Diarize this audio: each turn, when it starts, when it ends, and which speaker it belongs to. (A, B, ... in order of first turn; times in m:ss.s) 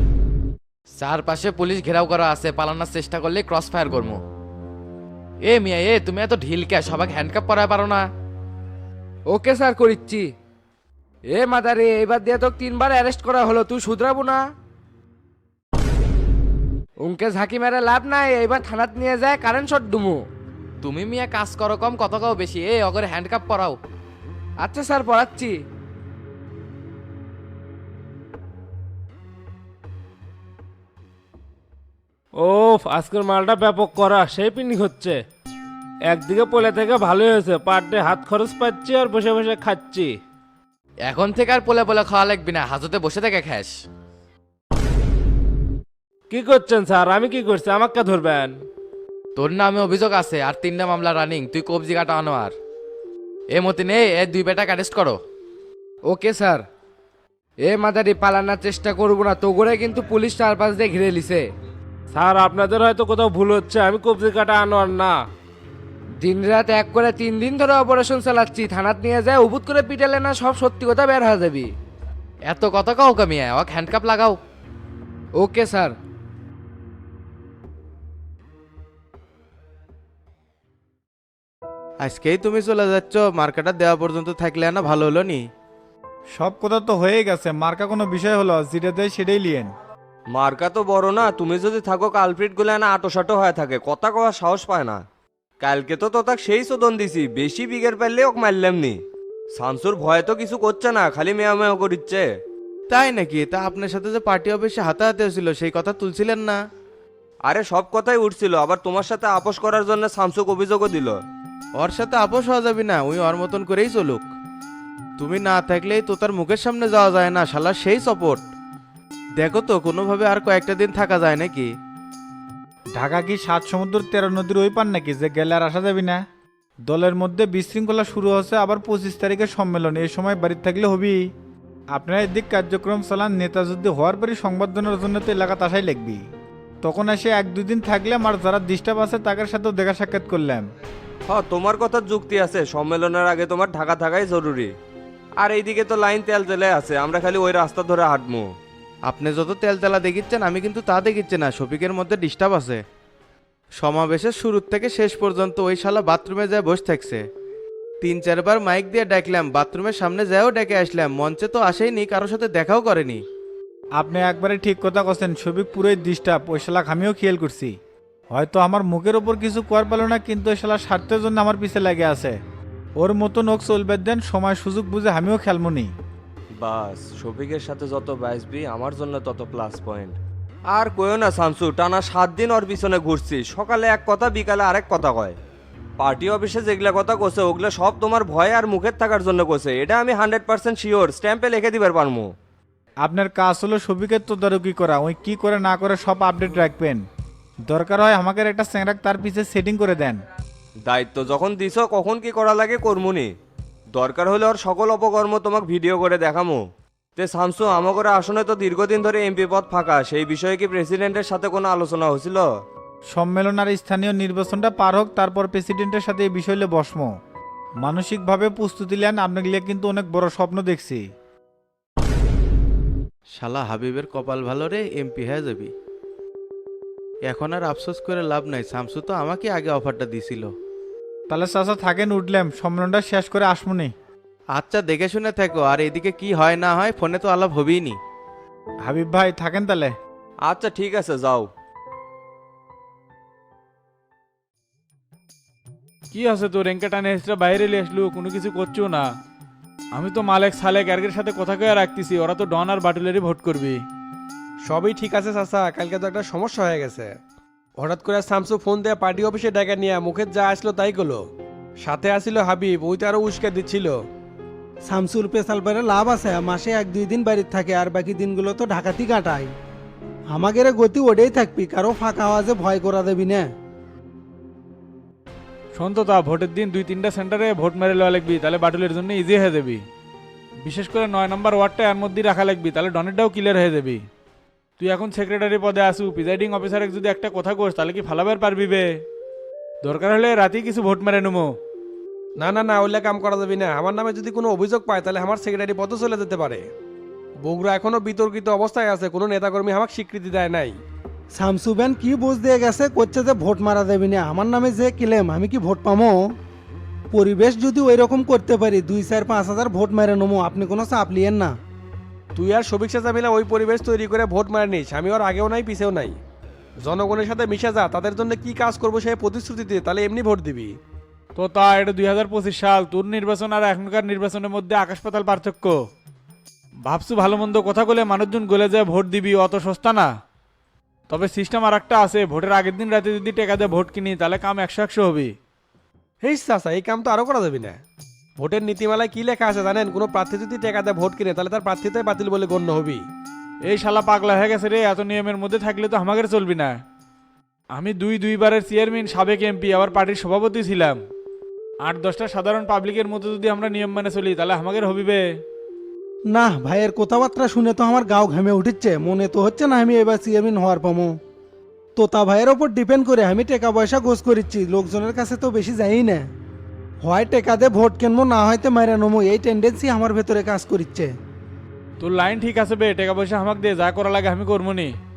0:01.0-0:04.2 A
0:05.5-0:08.0 A
0:09.3-0:10.3 B
0:11.3-0:14.5 B
0:17.0-0:20.2 B
0:20.8-0:23.8 A
0:24.6-0:25.6 B
0:32.3-0:35.2 C
0:36.1-0:40.2 C
0:41.1-0:43.7 A
0:46.3-0:48.6 C
0:49.4-0:52.5 A
0:53.5-0:55.2 A
0:56.0-0:56.6 B
0:57.6-1:01.5 B
1:02.1-1:05.2 C
1:06.2-1:11.7 B
1:12.5-1:14.3 A
1:15.3-1:16.0 B
1:22.0-1:25.4 D
1:26.4-1:29.7 E
1:30.3-1:35.0 F
1:35.6-1:39.0 F
1:39.5-1:42.3 F
1:42.9-1:46.6 D
1:47.4-1:51.2 F
1:51.8-1:54.2 D
1:55.2-1:58.4 D
1:59.4-2:01.7 D
2:03.0-2:06.2 E
2:06.9-2:11.3 E
2:11.9-2:16.2 E
2:16.8-2:20.6 E
2:21.3-2:24.7 F
2:25.4-2:28.5 F
2:29.1-2:32.8 D
2:33.8-2:37.2 D
2:38.0-2:43.2 D
2:44.0-2:47.8 E
2:48.3-2:52.4 E
2:53.0-2:55.9 E
2:56.5-3:00.2 F
3:00.7-3:05.4 F
3:06.0-3:12.3 F
3:13.0-3:17.0 E
3:17.7-3:20.2 E
3:20.8-3:23.3 F
3:23.9-3:26.6 F
3:27.2-3:32.5 F
3:33.1-3:37.1 E
3:37.8-3:41.0 E
3:43.4-3:45.7 D
3:47.2-3:50.5 D
3:51.3-3:53.9 E
3:54.5-3:58.0 D
3:58.8-3:59.9 E
4:00.4-4:01.5 F
4:06.1-4:09.0 G
4:09.9-4:13.8 G
4:14.6-4:17.1 H
4:17.8-4:21.2 H
4:21.8-4:24.0 H
4:24.9-4:29.5 I
4:30.3-4:33.4 I
4:35.7-4:39.8 G
4:40.6-4:44.0 G
4:44.8-4:48.9 G
4:49.8-4:51.5 G
4:52.4-4:56.6 H
4:57.4-5:00.7 H
5:01.4-5:06.1 I
5:07.1-5:11.5 I
5:12.3-5:16.2 H
5:16.8-5:20.8 H
5:21.4-5:25.8 G
5:26.8-5:30.1 G
5:31.1-5:35.3 G
5:36.2-5:37.8 H
5:38.4-5:43.0 H
5:43.6-5:46.8 G
5:47.7-5:51.0 G
5:51.8-5:55.2 G
5:56.3-6:01.1 I
6:02.0-6:06.2 I
6:07.0-6:11.1 I
6:12.0-6:14.9 G